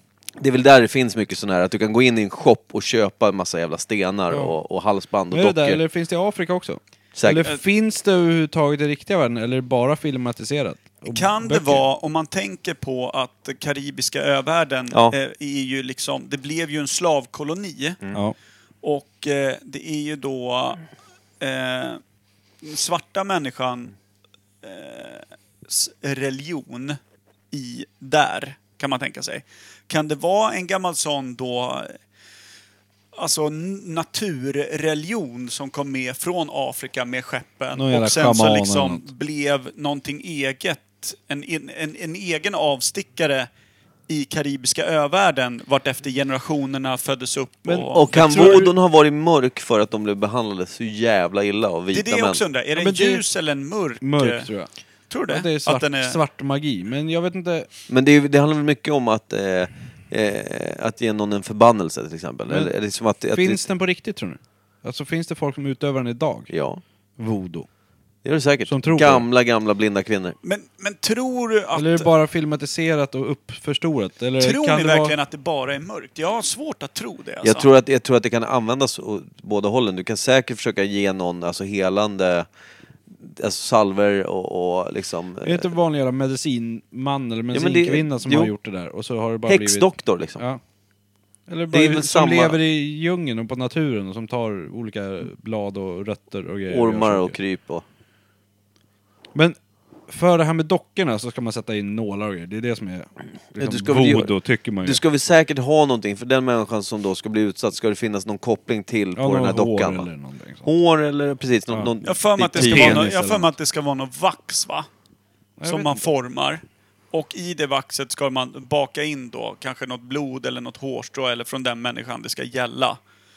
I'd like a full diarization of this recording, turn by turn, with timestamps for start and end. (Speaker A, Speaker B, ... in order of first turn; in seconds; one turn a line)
Speaker A: 0.4-5.8
Speaker B: 5.3-11.8
Speaker A: 7.1-7.5
Speaker C: 11.1-18.0
Speaker C: 18.8-20.8
Speaker C: 21.4-22.0
Speaker C: 22.6-23.9
Speaker C: 24.6-27.0
Speaker C: 27.5-32.0
Speaker C: 33.1-43.5
Speaker B: 37.8-39.1
Speaker C: 44.1-48.7
Speaker B: 47.6-48.7
Speaker A: 47.9-52.4
Speaker C: 51.9-54.5
Speaker B: 52.7-53.2
Speaker B: 54.0-54.7
Speaker C: 55.1-56.2
Speaker B: 55.3-57.7
Speaker A: 57.9-63.6
Speaker B: 63.3-66.5
Speaker A: 66.5-66.8
Speaker B: 67.2-67.7
Speaker A: 68.2-70.3
Speaker B: 68.7-69.2
Speaker C: 70.4-72.1
Speaker B: 71.7-75.1
Speaker C: 74.4-77.7
Speaker A: 77.4-82.5
Speaker A: 83.2-85.7
Speaker B: 85.4-89.9
Speaker A: 87.5-88.5
Speaker A: 89.5-90.4
Speaker B: 91.5-97.3
Speaker A: 91.7-92.6
Speaker A: 96.7-97.8
Speaker B: 100.1-105.0
Speaker A: 103.6-110.1
Speaker B: 109.2-110.7
Speaker A: 110.6-113.1
Speaker C: 112.0-114.9
Speaker B: 112.5-113.5
Speaker B: 115.6-116.0
Speaker C: 115.6-123.0